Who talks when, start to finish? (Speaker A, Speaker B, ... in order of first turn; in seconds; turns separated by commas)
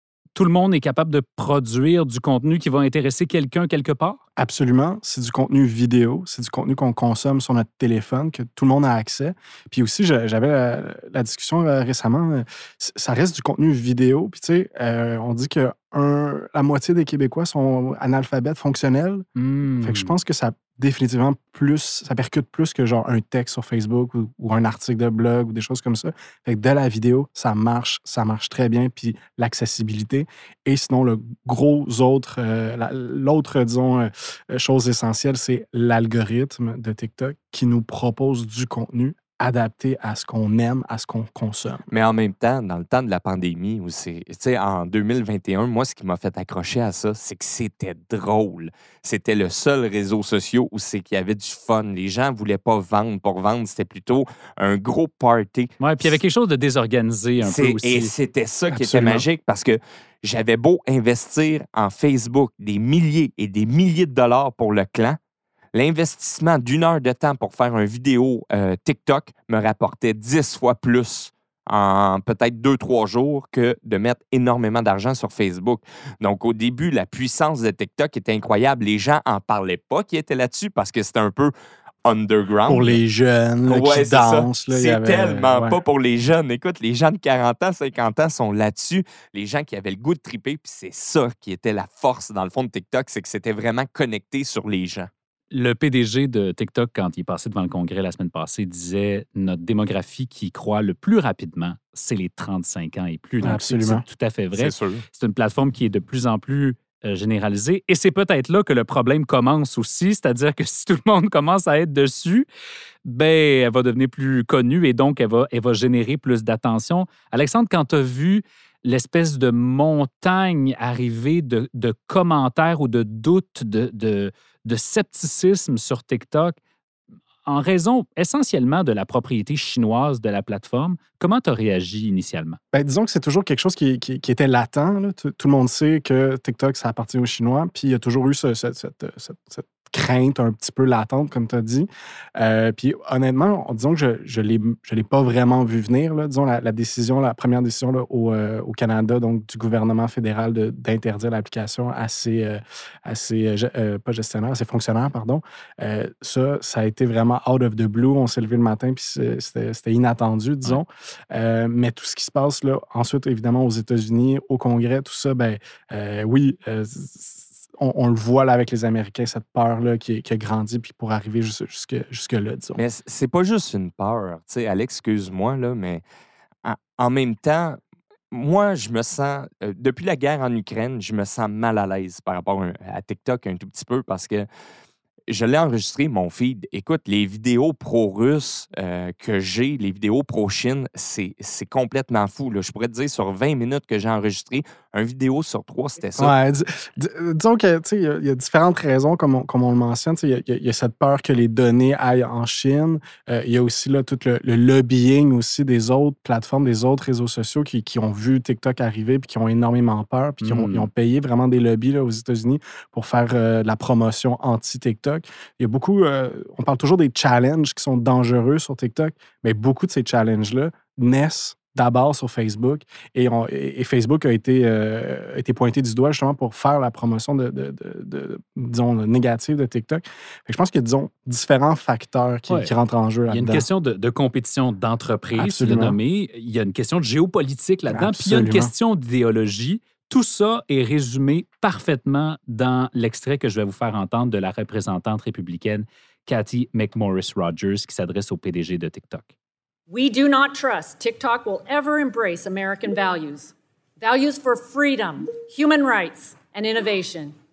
Speaker A: 0.3-4.2, Speaker B: 4.4-19.2, Speaker A: 19.4-20.1, Speaker B: 19.8-41.9, Speaker C: 41.9-56.1, Speaker A: 55.8-58.1, Speaker C: 57.4-65.2, Speaker B: 58.7-59.2, Speaker C: 65.7-81.5, Speaker C: 82.0-83.0, Speaker B: 82.7-85.8, Speaker C: 83.7-95.1, Speaker A: 95.5-112.5, Speaker B: 103.4-104.0, Speaker C: 104.5-105.0, Speaker A: 113.0-126.6, Speaker A: 127.5-132.6, Speaker B: 132.7-172.8, Speaker C: 172.8-176.0, Speaker C: 176.6-177.8, Speaker C: 178.3-184.5, Speaker C: 185.3-196.3, Speaker B: 196.2-233.7, Speaker A: 210.4-210.9, Speaker A: 233.3-249.3, Speaker B: 235.3-236.0, Speaker B: 237.9-238.7, Speaker D: 249.9-257.3